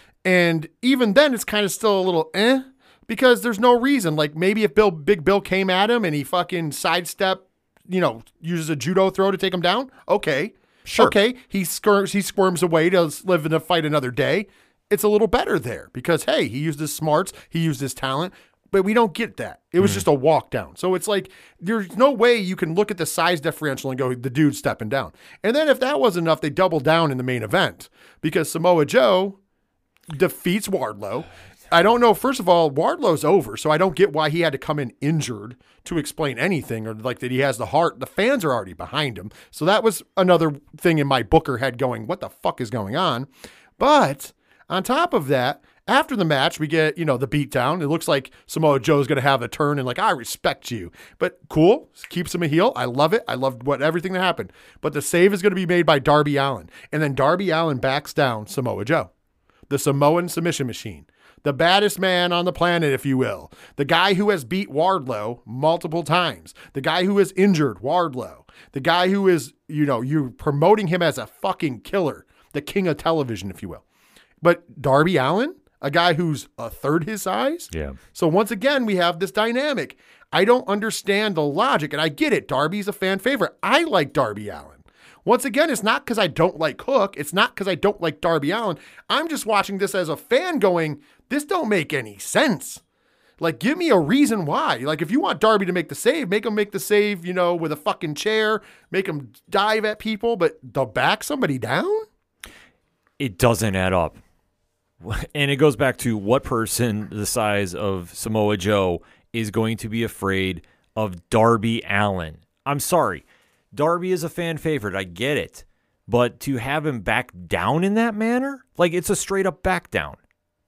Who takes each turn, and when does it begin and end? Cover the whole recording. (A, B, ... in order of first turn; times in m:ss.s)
0:00.2-0:29.4 A
0:10.8-0:11.1 B
0:30.1-0:59.1 A
0:59.7-1:13.8 A
1:14.4-1:32.8 A
1:17.7-1:18.0 B
1:33.4-1:42.0 A
1:43.2-1:44.2 B
1:45.0-2:00.2 B